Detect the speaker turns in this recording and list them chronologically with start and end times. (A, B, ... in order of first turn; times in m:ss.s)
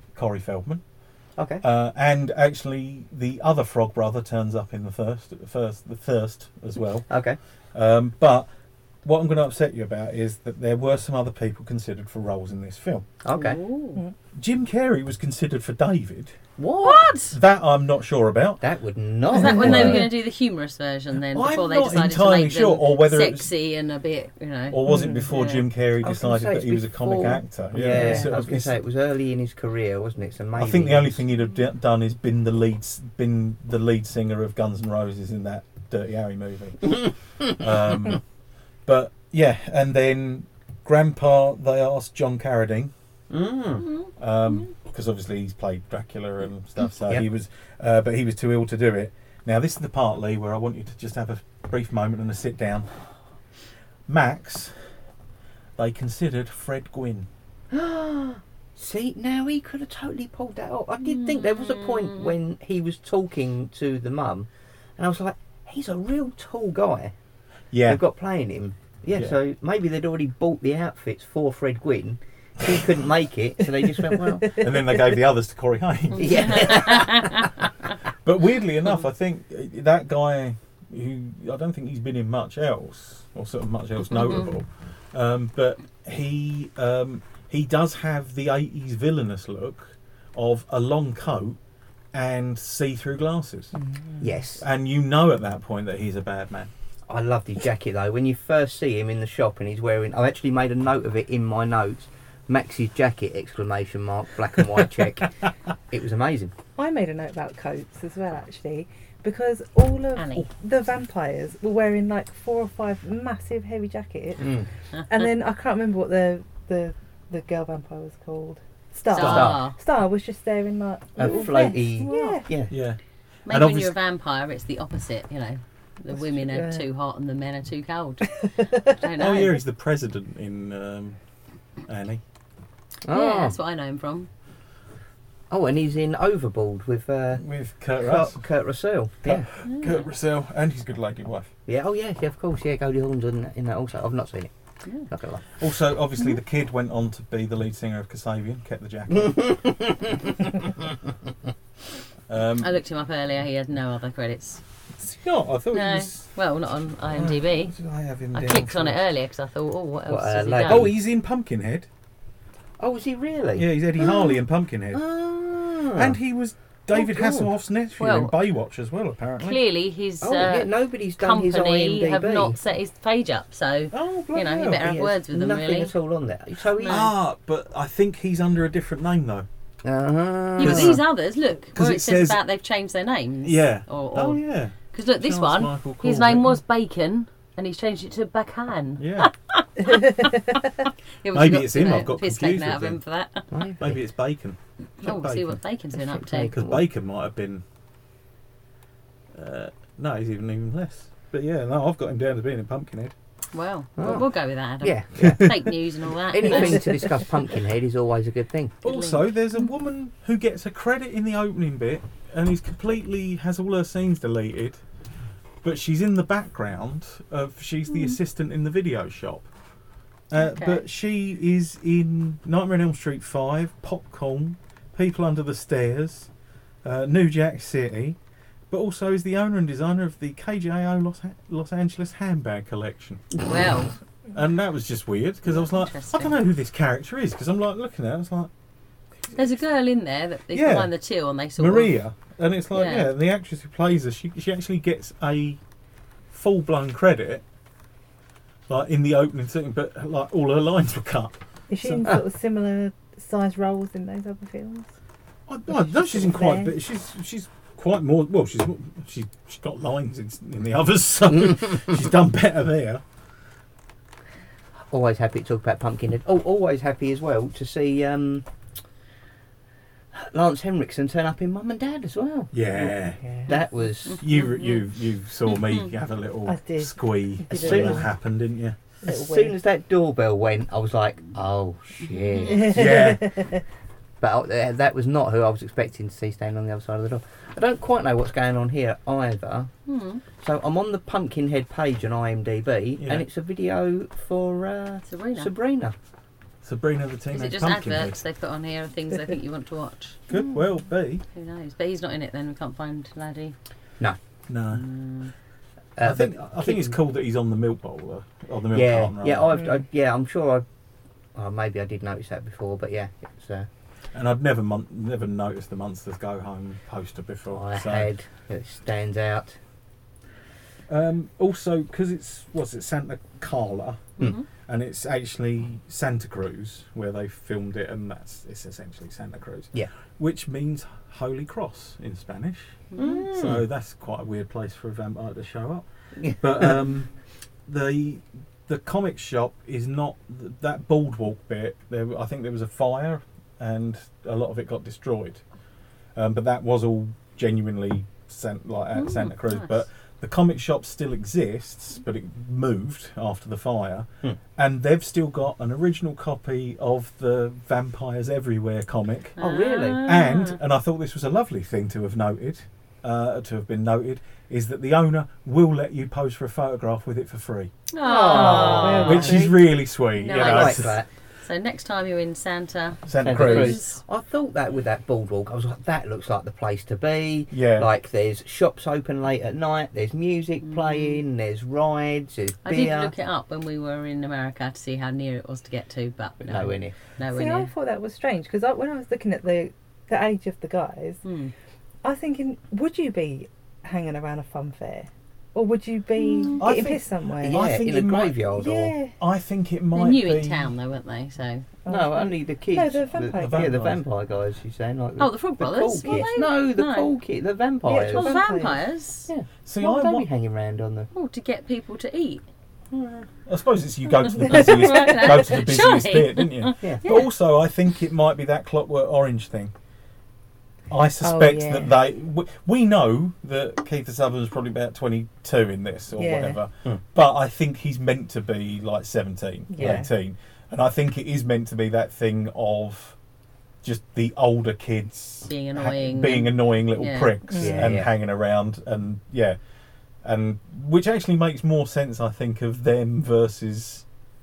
0:00.1-0:00.8 A
0:01.4-0:01.6 B
0:01.6-0:07.1 A
0:07.1-0:07.4 B
0:07.7-0:08.5 A
0:09.0-0:13.0 A
0:13.2-0:13.6 B
0:13.3-0:14.0 C
0:14.3-0:16.4 A
0:16.6-0:17.1 B
0:16.8-0:17.4 C
0:17.3-0:18.6 A
0:18.6-0:20.1 B
0:19.3-0:25.6 C
0:19.5-0:20.1 A
0:21.3-0:23.5 A
0:24.7-0:28.7 A
0:24.8-0:25.3 D
0:26.2-0:31.2 B
0:27.9-0:28.3 D
0:30.6-0:38.2 A
0:38.8-0:42.9 A
0:43.3-0:43.9 B
0:44.2-0:52.9 A
0:54.1-0:54.7 A
0:55.8-0:57.3 A
0:57.7-1:07.1 B
1:01.0-1:02.3 C
1:07.7-1:08.0 A
1:07.8-1:14.7 B
1:14.5-1:17.0 A
1:16.2-1:17.7 B
1:16.3-1:17.5 C
1:18.2-1:31.6 A
1:32.1-1:33.7 A
1:33.8-1:34.2 D
1:34.2-1:34.6 B
1:34.6-1:36.7 A
1:37.1-1:46.5 B
1:46.8-1:54.5 D
1:50.2-1:50.4 C
1:54.4-1:54.7 B
1:55.1-2:02.5 D
1:59.1-1:59.8 C
1:59.1-1:59.6 A
1:59.2-1:59.6 B
2:01.2-2:02.7 B
2:01.2-2:02.2 C
2:02.7-2:03.9 A
2:03.5-2:09.6 C
2:06.2-2:06.8 D
2:08.4-2:09.0 D
2:09.2-2:11.2 A
2:11.8-2:12.2 A
2:13.1-2:13.5 B
2:13.1-2:14.3 C
2:15.5-2:17.4 B
2:17.4-2:18.4 A
2:18.0-2:19.5 B
2:19.2-2:21.5 A
2:19.7-2:20.0 C
2:21.7-2:24.5 B
2:25.0-2:25.4 B
2:25.6-2:29.6 A
2:29.1-2:30.9 B
2:32.3-2:32.8 A
2:32.6-2:34.6 C
2:35.0-2:36.2 A
2:35.7-2:37.7 C
2:37.1-2:39.0 A
2:38.3-2:40.9 C
2:40.1-2:40.9 B
2:40.6-2:41.9 A
2:42.8-2:44.4 B
2:43.6-2:45.0 A
2:44.9-2:46.2 B
2:45.9-2:49.6 A
2:46.9-2:47.5 B
2:48.0-2:48.3 C
2:49.4-2:55.9 C
2:50.2-2:52.6 B
2:53.9-2:54.9 A
2:54.8-2:57.1 B
2:56.7-2:57.1 C
2:56.8-2:59.5 A
2:59.8-3:01.0 B
3:00.6-3:04.4 C
3:00.6-3:01.0 A
3:01.7-3:02.4 A
3:03.4-3:06.6 A
3:04.9-3:13.5 C
3:09.0-3:09.3 A
3:11.3-3:13.0 A
3:13.5-3:14.0 B
3:13.8-3:15.6 A
3:15.0-3:16.5 C
3:16.0-3:16.8 B
3:16.5-3:17.6 A
3:19.3-3:23.1 A
3:23.5-3:27.2 C
3:24.0-3:24.3 B
3:24.8-3:25.8 B
3:25.2-3:25.5 A
3:26.3-3:28.8 B
3:28.8-3:34.8 A
3:28.8-3:29.2 C
3:35.6-3:39.5 A
3:40.3-3:46.3 A
3:40.3-3:40.8 C
3:46.8-3:48.2 A
3:48.7-3:53.4 A
3:53.4-3:53.9 C
3:54.3-3:58.5 A
3:55.4-3:56.3 C
3:59.3-4:01.9 C
4:00.5-4:00.9 A
4:01.6-4:05.6 A
4:02.7-4:03.1 C
4:06.3-4:07.4 A
4:08.7-4:12.1 A
4:11.7-4:14.9 D
4:15.5-4:23.0 A
4:15.8-4:16.7 D
4:24.9-4:28.4 B
4:30.1-4:32.9 B
4:32.5-4:33.2 A
4:33.2-4:33.5 D
4:33.5-4:34.3 B
4:34.2-4:38.8 A
4:34.3-4:34.8 C
4:36.5-4:38.1 D
4:37.5-4:38.1 B
4:39.0-4:39.6 D
4:39.0-4:43.0 B
4:42.1-4:42.7 C
4:42.5-4:43.6 D
4:42.5-4:43.4 A
4:44.2-4:49.7 B
4:49.9-4:50.2 C
4:50.3-4:55.9 B
4:53.0-4:53.2 A
4:55.1-4:55.5 C
4:56.6-4:58.2 A
4:57.3-5:00.2 C
5:00.3-5:01.2 A
5:01.3-5:03.5 C
5:04.5-5:04.8 A
5:04.8-5:05.3 C
5:06.0-5:07.0 B
5:06.0-5:09.5 A
5:08.7-5:10.6 B
5:09.5-5:09.8 D
5:11.3-5:13.7 B
5:14.1-5:18.1 A
5:17.5-5:19.6 B
5:20.9-5:24.1 A
5:24.2-5:24.4 C
5:24.7-5:35.8 A
5:32.9-5:33.2 C
5:33.0-5:33.6 B
5:36.2-5:36.8 B
5:36.4-5:37.1 A
5:37.6-5:45.4 A
5:46.1-5:59.4 A
5:48.9-5:49.7 C
5:59.4-6:00.0 B
5:59.4-6:00.6 C
6:00.0-6:07.7 A
6:07.9-6:09.4 C
6:08.0-6:09.6 B
6:08.3-6:09.5 D
6:09.0-6:11.0 A
6:10.2-6:14.0 C
6:10.3-6:11.1 B
6:13.0-6:13.8 A
6:13.2-6:23.1 B
6:17.5-6:17.9 A
6:20.6-6:21.2 C
6:22.6-6:27.7 C
6:26.4-6:26.9 B
6:27.3-6:31.2 D
6:31.2-6:31.5 C
6:32.0-6:37.6 D
6:36.2-6:36.6 C
6:36.6-6:38.4 A
6:37.4-6:38.9 B
6:38.6-6:39.2 D
6:39.2-6:40.7 A
6:39.9-6:41.7 C
6:41.8-6:43.8 D
6:41.9-6:48.4 B
6:43.2-6:44.0 A
6:45.2-6:47.1 C
6:46.0-6:46.4 D
6:47.8-6:48.8 D
6:47.9-6:49.3 C
6:49.3-6:51.1 B
6:49.6-6:50.2 A
6:51.1-6:52.4 C
6:52.9-6:53.3 B
6:53.4-6:59.7 A
6:54.2-6:57.3 C
7:00.9-7:13.2 A
7:01.2-7:01.9 D
7:06.2-7:06.6 D
7:09.7-7:10.1 D
7:13.8-7:19.6 A
7:15.5-7:17.3 C
7:17.5-7:17.9 D
7:17.6-7:18.1 B
7:20.2-7:24.0 A